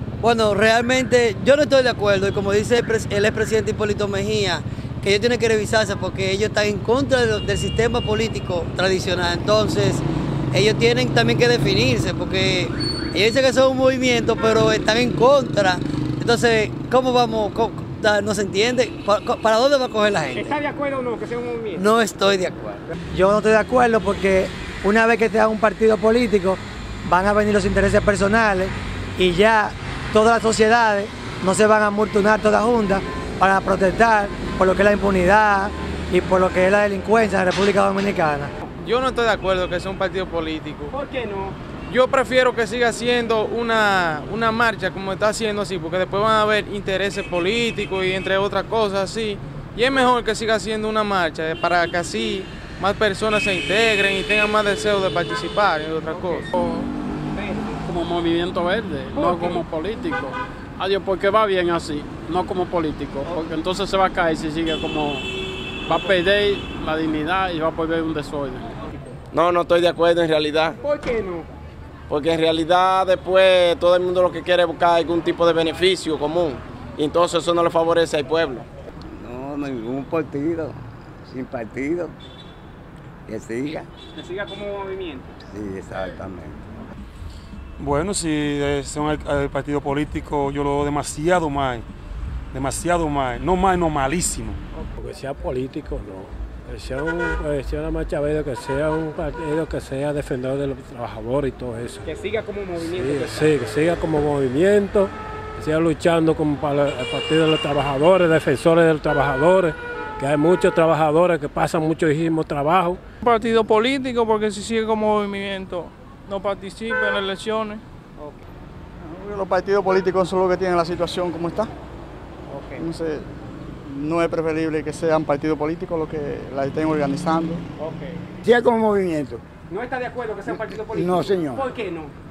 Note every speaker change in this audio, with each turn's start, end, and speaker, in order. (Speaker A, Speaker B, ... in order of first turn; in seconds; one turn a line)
Speaker A: 0.2-20.6
Speaker B: 20.3-21.9
Speaker A: 21.7-22.8
Speaker C: 23.1-38.5
Speaker D: 38.8-40.9
Speaker B: 40.9-41.6
Speaker D: 41.9-56.6
Speaker B: 56.1-56.5
Speaker B: 57.3-57.8
Speaker E: 57.9-65.2
Speaker B: 59.1-59.6
Speaker E: 65.9-68.4
Speaker F: 69.3-70.8
Speaker B: 70.8-71.5
Speaker F: 72.1-78.6
Speaker G: 79.2-82.1
Speaker G: 83.3-83.9
Speaker B: 84.1-85.3
Speaker G: 85.4-86.7
Speaker H: 87.8-91.8
Speaker H: 92.5-94.6
Speaker I: 95.0-102.1
Speaker B: 102.0-103.6
Speaker I: 102.9-113.0
Speaker J: 113.2-117.8
Speaker K: 119.0-121.7
Speaker B: 122.5-122.8
Speaker K: 122.8-123.2
Speaker K: 123.9-127.6
Speaker B: 127.8-128.2
Speaker L: 128.4-129.4
Speaker B: 129.7-132.1
Speaker L: 130.5-131.6